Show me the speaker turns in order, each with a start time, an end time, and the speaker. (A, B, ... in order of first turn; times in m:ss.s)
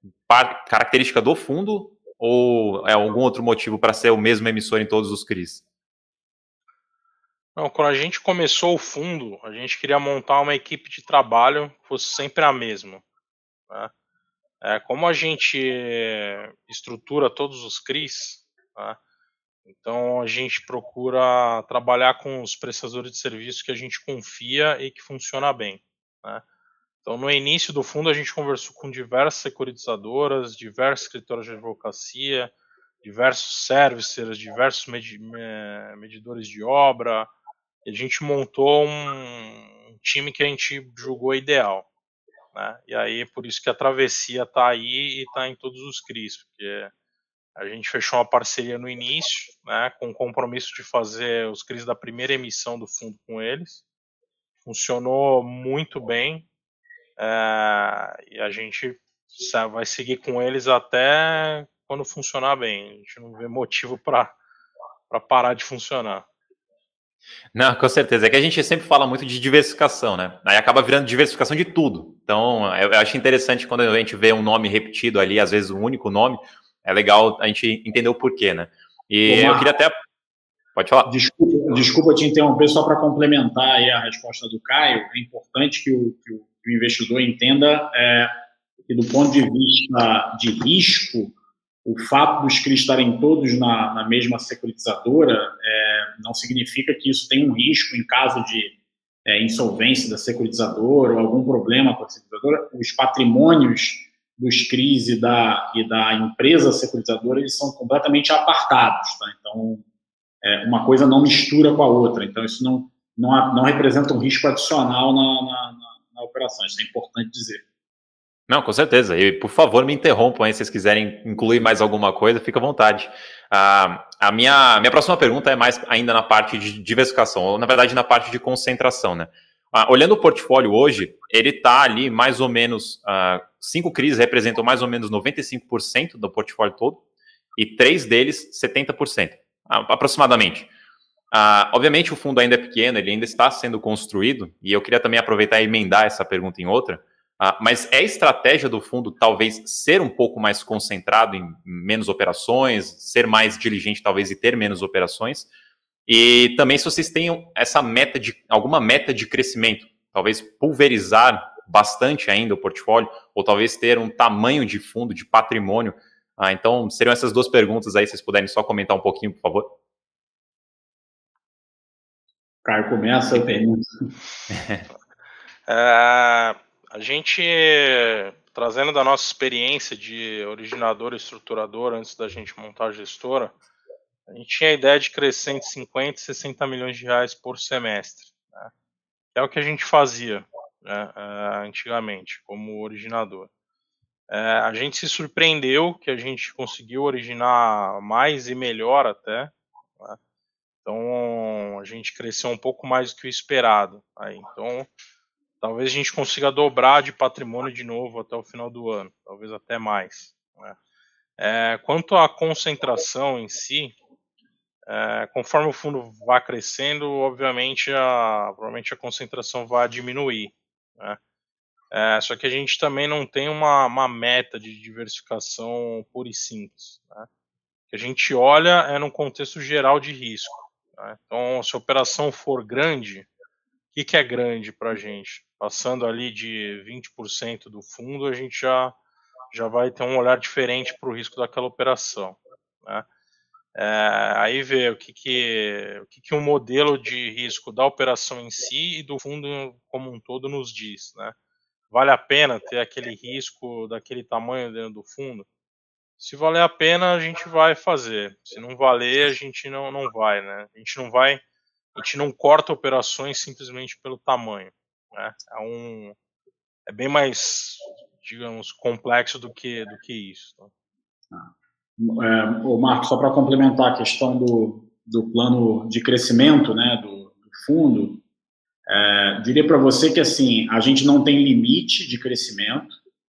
0:00.3-0:05.6 A
0:07.6-0:13.0 B
0:14.6-0:19.0 B
0:19.7-0:26.4 B
0:27.0-0:32.5 B
0:33.0-0:37.3 B
0:37.8-0:41.9 B
0:42.5-0:46.9 B
0:47.6-0:53.8 B
0:54.6-0:56.5 B
0:57.2-1:04.4 B
1:05.1-1:06.2 B
1:07.5-1:19.9 A
1:19.3-1:19.7 C
1:20.8-1:21.1 A
1:21.1-1:28.3 C
1:28.9-1:31.3 C
1:31.8-1:49.8 C
1:50.4-1:57.6 C
1:58.5-2:17.0 A
2:17.6-2:20.7 A
2:21.3-2:35.5 A
2:36.1-2:49.7 A
2:52.6-2:53.8 C
2:54.5-2:54.8 A
2:55.7-3:03.6 B
3:04.3-3:08.7 B
3:09.4-3:13.5 B
3:14.3-3:20.2 B
3:20.8-3:24.9 B
3:25.6-3:30.8 B
3:31.4-3:34.0 B
3:34.9-3:41.2 B
3:41.9-3:47.3 B
3:47.9-3:53.3 B
3:53.9-3:59.0 B
3:59.5-4:03.0 B
4:03.8-4:11.4 B
4:11.9-4:15.5 B
4:16.2-4:21.4 B
4:22.0-4:26.2 B
4:26.9-4:30.7 B
4:31.3-4:38.2 C
4:38.9-4:43.0 C